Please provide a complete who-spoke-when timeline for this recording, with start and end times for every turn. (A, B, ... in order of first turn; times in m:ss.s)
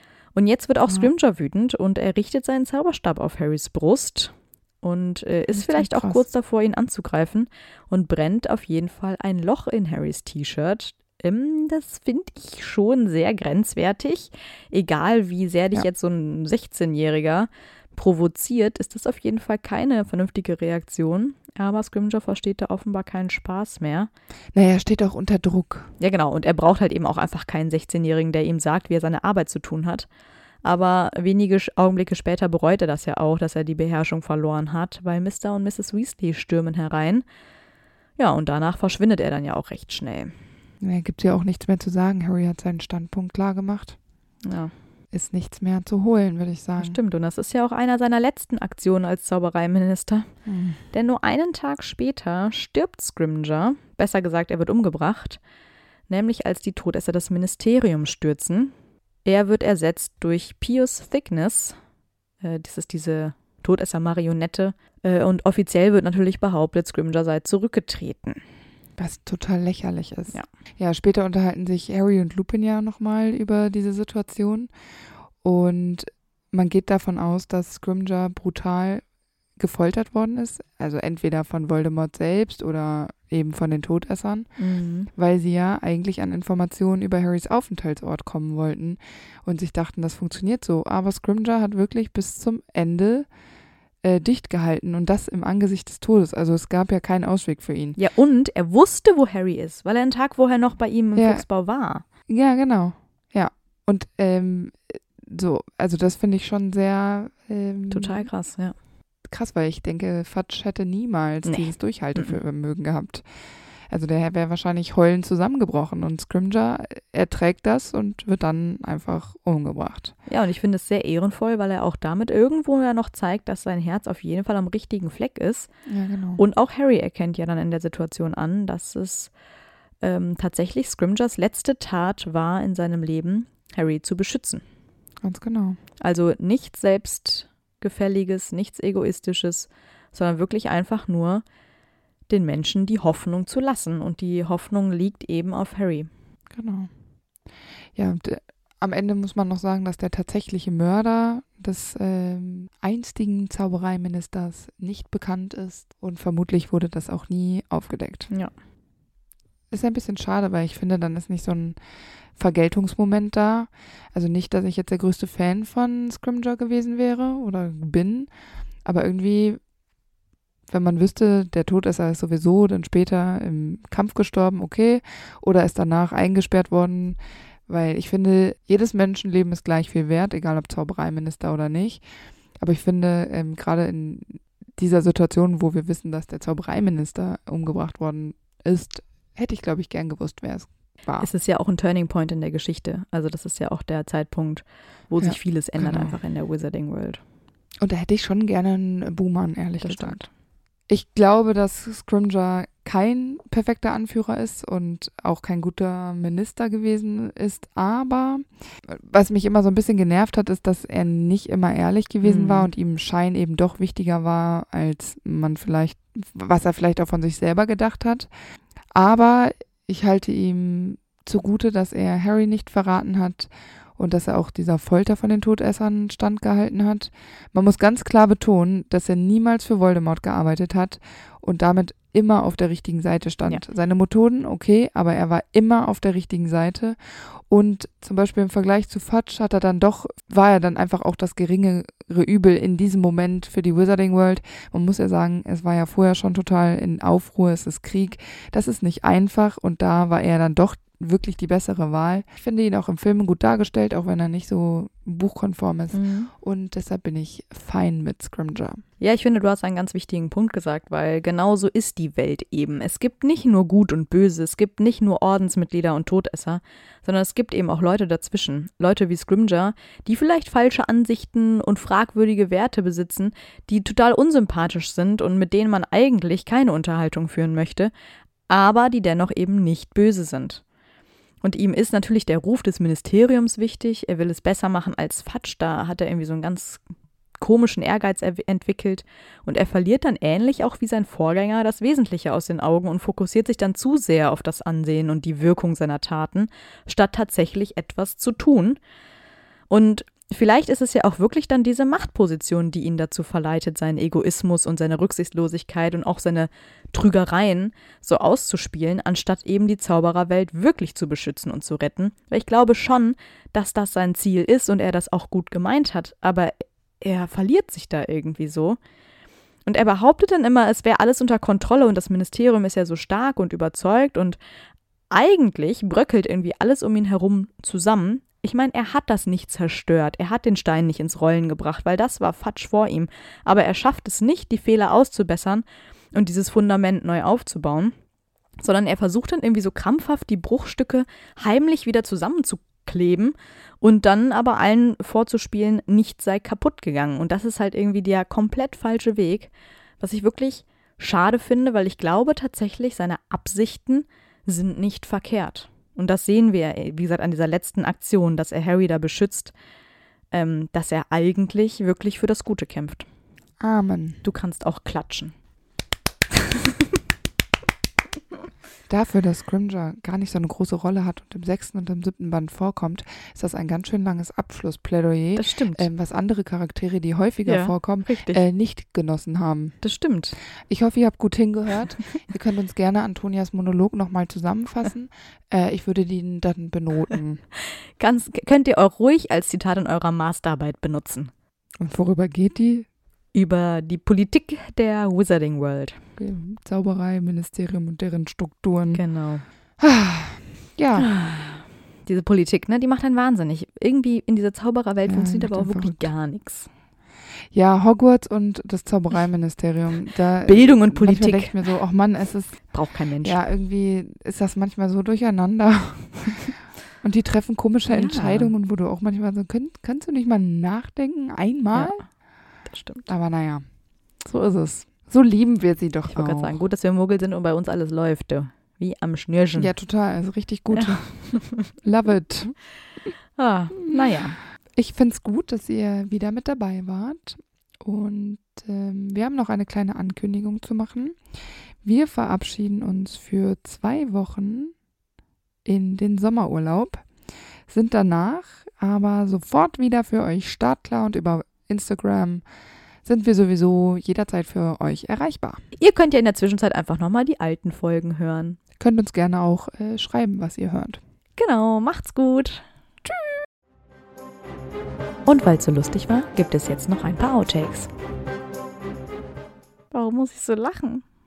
0:00.3-0:24.1 A
0:05.5-0:06.3 B
0:24.5-0:25.9 B
0:26.0-0:30.1 A
0:30.6-0:37.2 A
0:38.2-0:40.3 A
0:40.8-0:44.0 B
0:44.4-0:44.7 A
0:45.1-0:47.0 B
0:46.8-0:50.4 A
0:50.5-0:50.8 B
0:50.9-0:55.4 A
0:56.1-0:58.7 A
0:59.2-1:01.8 A
1:02.4-1:08.4 A
1:09.0-1:14.7 B
1:15.4-1:19.0 B
1:19.6-1:24.6 B
1:24.6-1:25.1 A
1:25.1-1:33.3 B
1:34.0-1:38.0 B
1:38.0-1:42.0 A
1:41.2-1:41.4 B
1:42.3-1:48.3 B
1:47.9-1:48.8 A
1:49.2-2:00.1 B
1:51.4-1:52.4 A
2:00.3-2:05.7 A
2:05.9-2:06.4 B
2:06.4-2:09.3 A
2:10.0-2:14.6 A
2:15.2-2:15.8 B
2:16.0-2:21.4 A
2:22.3-2:26.1 A
2:26.5-2:26.9 B
2:28.0-2:38.3 B
2:39.7-2:41.8 B
2:42.4-2:48.3 B
2:48.8-2:49.6 B
2:50.7-3:02.0 B
3:02.6-3:11.3 B
3:11.2-3:17.2 A
3:15.2-3:16.2 B
3:17.8-3:20.3 B
3:19.8-3:20.3 A
3:20.9-3:38.3 B
3:32.2-3:32.7 A
3:38.9-4:18.8 B
4:15.9-4:16.3 A
4:19.0-4:37.9 A
4:38.5-4:40.6 A
4:41.4-4:46.8 A
4:47.4-4:58.8 A
4:59.7-5:18.8 A
5:19.7-5:24.4 A
5:25.1-5:38.0 A
5:38.6-5:59.5 A
6:00.3-6:03.1 A
6:03.6-6:04.2 B
6:04.2-6:05.4 A
6:08.9-6:19.8 B
6:15.4-6:15.9 A
6:17.5-6:18.4 A
6:19.8-6:20.4 A
6:20.7-6:27.4 B
6:28.0-6:31.3 A
6:31.8-6:32.9 B
6:33.3-6:36.0 A
6:36.2-6:39.0 B
6:38.9-6:39.4 A
6:39.8-6:41.1 B
6:41.0-6:46.7 A
6:45.1-6:46.1 B
6:47.5-7:02.2 B
6:50.4-6:51.6 A
6:52.7-6:53.4 A
6:57.9-6:58.5 A
7:01.7-7:02.1 A
7:02.6-7:03.1 A
7:03.1-7:03.6 B
7:04.2-7:06.6 B
7:06.1-7:09.7 A
7:09.6-7:13.1 B
7:10.7-7:11.0 A
7:13.4-7:14.4 A
7:14.7-7:24.8 B
7:25.6-7:27.1 B
7:27.7-7:32.4 B
7:33.0-7:35.6 B
7:35.8-7:38.6 A
7:38.8-7:41.0 B
7:41.4-7:43.4 A
7:45.2-7:47.9 A
7:49.9-7:51.0 A